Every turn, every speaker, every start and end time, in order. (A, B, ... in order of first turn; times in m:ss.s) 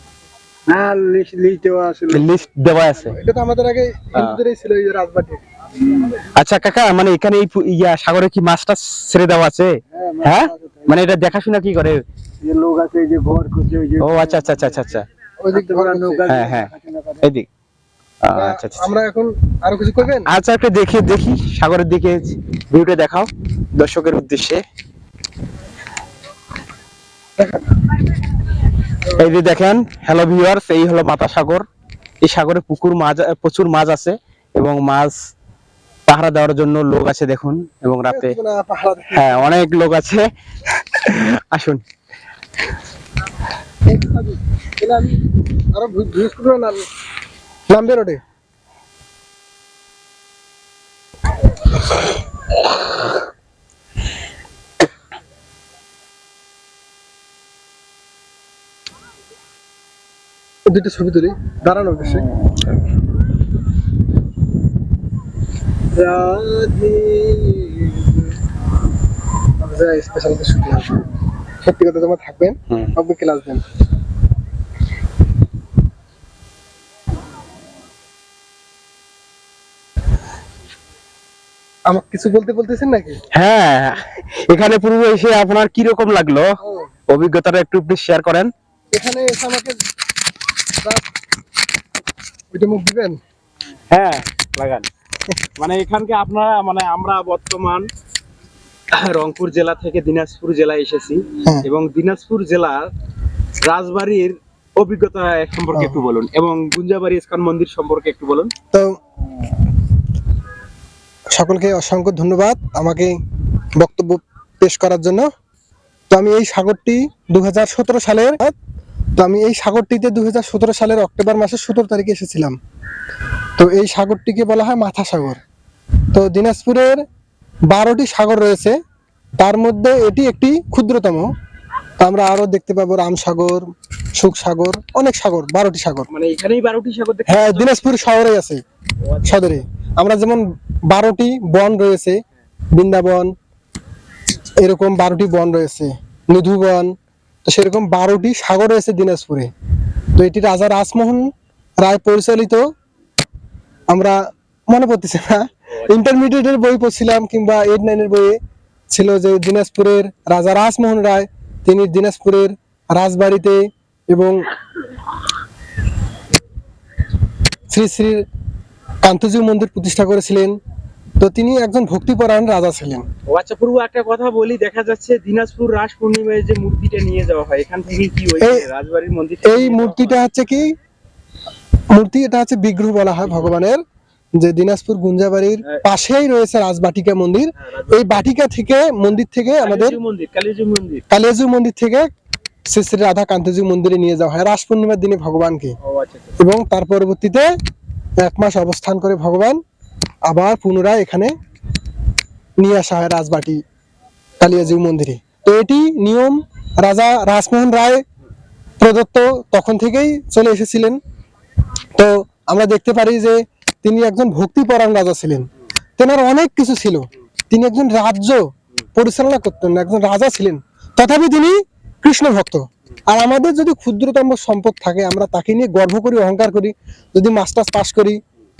0:00.7-0:02.4 A
0:02.1-0:03.2 B
0:03.2-0:05.4 C
0:06.4-0:12.0 B
0:09.9-0:11.1 A
0:12.4-0:14.6 A
0:14.0-0:15.1 B
0:15.4-0:16.3 C
0:15.5-0:17.2 A
0:16.3-0:17.5 B
0:18.3-0:18.9 B
0:18.3-0:20.3 C
0:20.2-0:24.6 B
0:29.1-0:29.4 C
0:29.2-0:31.6 B
0:32.2-0:35.1 B
0:36.1-0:38.4 B
0:38.1-0:39.5 C
0:39.1-0:40.3 B
0:40.8-0:41.8 B
0:43.9-0:45.2 C
0:45.7-0:46.8 C
0:47.7-0:48.2 C
1:00.7-1:02.3 C
1:05.9-1:08.3 C
1:09.6-1:11.0 C
1:11.6-1:13.6 C
1:21.9-1:23.2 C
1:23.3-1:26.5 B
1:26.6-1:26.9 C
1:27.1-1:28.5 B
1:28.9-1:29.8 C
1:32.5-1:33.2 C
1:33.9-1:34.9 B
1:35.6-1:37.9 B
1:39.0-1:42.9 B
1:43.6-1:48.5 B
1:45.7-1:46.0 C
1:51.4-1:53.2 C
1:53.8-1:55.3 C
1:56.1-1:58.6 C
1:59.2-2:02.6 C
2:03.6-2:05.4 C
2:06.1-2:07.0 C
2:07.7-2:08.8 C
2:09.4-2:11.3 C
2:12.0-2:13.7 C
2:14.2-2:16.1 C
2:16.1-2:18.1 B
2:17.3-2:18.6 C
2:19.0-2:19.6 B
2:19.2-2:22.2 C
2:22.8-2:23.3 C
2:24.6-2:26.9 C
2:27.5-2:29.5 C
2:30.2-2:31.3 C
2:31.8-2:32.6 C
2:33.9-2:34.2 C
2:34.7-2:38.4 C
2:38.9-2:44.4 C
2:47.7-2:48.2 C
2:49.0-2:50.5 C
2:51.2-2:53.0 C
2:53.3-3:00.2 B
2:58.4-2:58.7 C
2:59.4-3:00.7 C
3:01.9-3:03.8 C
3:03.2-3:03.6 B
3:04.4-3:10.0 C
3:07.7-3:08.1 B
3:09.6-3:11.0 B
3:11.1-3:12.1 C
3:12.7-3:15.8 C
3:15.8-3:16.3 B
3:16.4-3:17.5 C
3:18.2-3:19.6 C
3:20.2-3:21.3 C
3:22.6-3:23.6 C
3:24.4-3:28.0 C
3:28.8-3:31.0 C
3:32.0-3:35.5 C
3:36.0-3:38.4 C
3:39.0-3:48.2 C